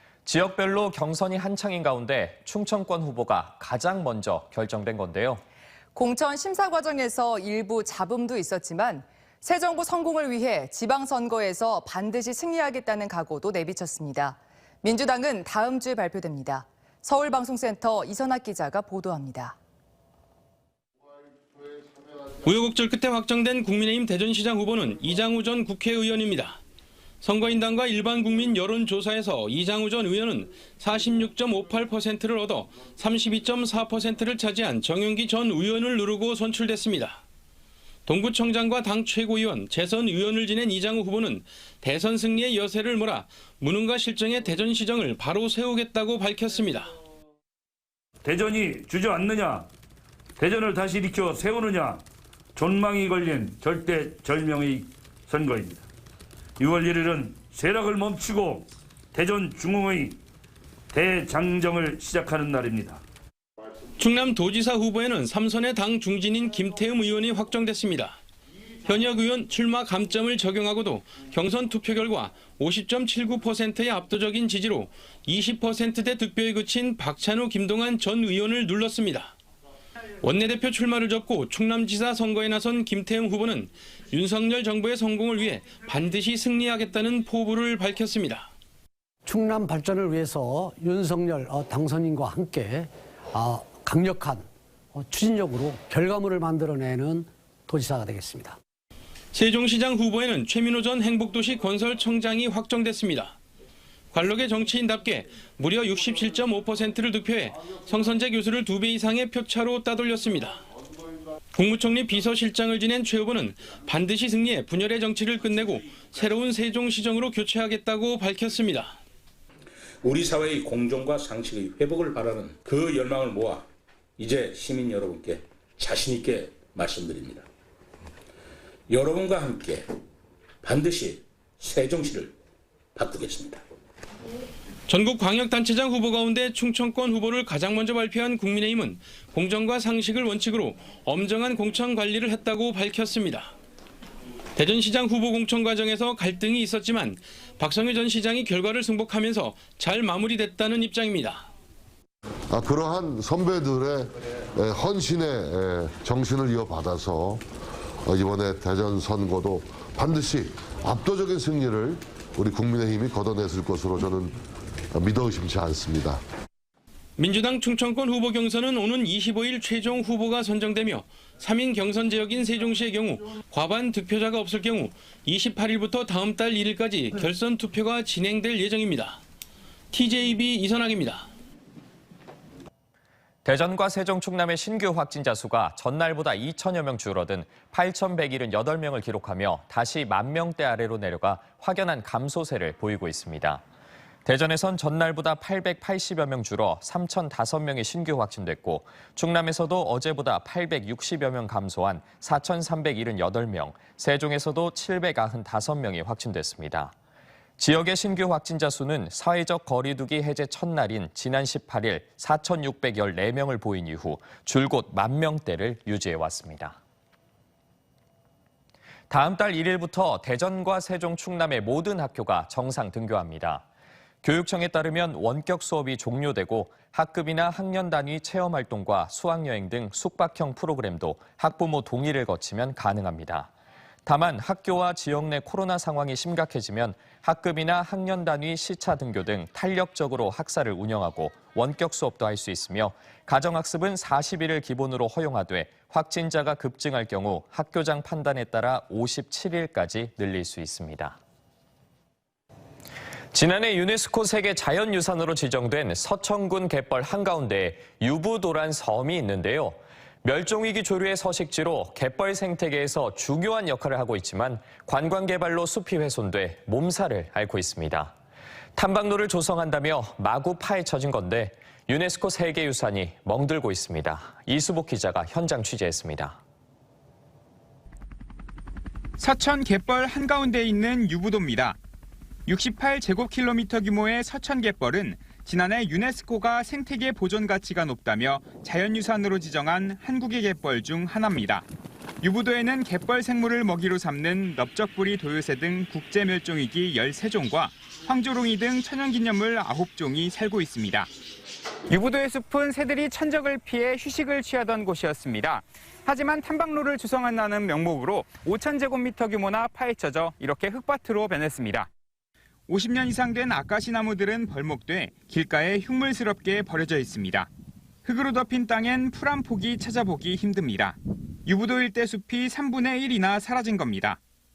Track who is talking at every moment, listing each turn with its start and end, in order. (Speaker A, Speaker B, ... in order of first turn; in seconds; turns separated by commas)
Speaker A: 0.3-5.4, Speaker B: 5.9-19.6, Speaker C: 22.4-26.6, Speaker C: 27.2-37.2, Speaker C: 38.1-46.9, Speaker D: 48.2-49.7, Speaker D: 50.4-55.9, Speaker D: 56.6-60.2, Speaker D: 60.9-63.0, Speaker C: 64.0-68.2, Speaker C: 68.8-79.3, Speaker C: 80.2-88.5, Speaker E: 89.2-98.6, Speaker C: 99.3-103.4, Speaker C: 104.1-110.6, Speaker C: 111.5-119.0, Speaker F: 120.0-123.7, Speaker F: 124.2-127.5, Speaker F: 128.9-129.9, Speaker F: 130.6-132.3, Speaker F: 133.0-133.6, Speaker C: 134.9-143.5, Speaker C: 144.6-151.5, Speaker G: 152.5-157.4, Speaker G: 158.0-164.4, Speaker G: 164.9-166.2, Speaker C: 167.2-179.2, Speaker C: 179.9-181.3, Speaker A: 183.4-193.6, Speaker A: 194.2-206.9, Speaker A: 207.6-216.8, Speaker A: 219.1-223.6, Speaker A: 224.2-233.5, Speaker A: 234.1-251.2, Speaker A: 253.3-268.1, Speaker A: 268.8-276.4, Speaker H: 279.2-281.8, Speaker H: 282.5-291.6, Speaker H: 292.2-301.0, Speaker H: 301.9-311.9, Speaker H: 312.7-317.5, Speaker H: 318.1-321.0, Speaker H: 321.5-324.2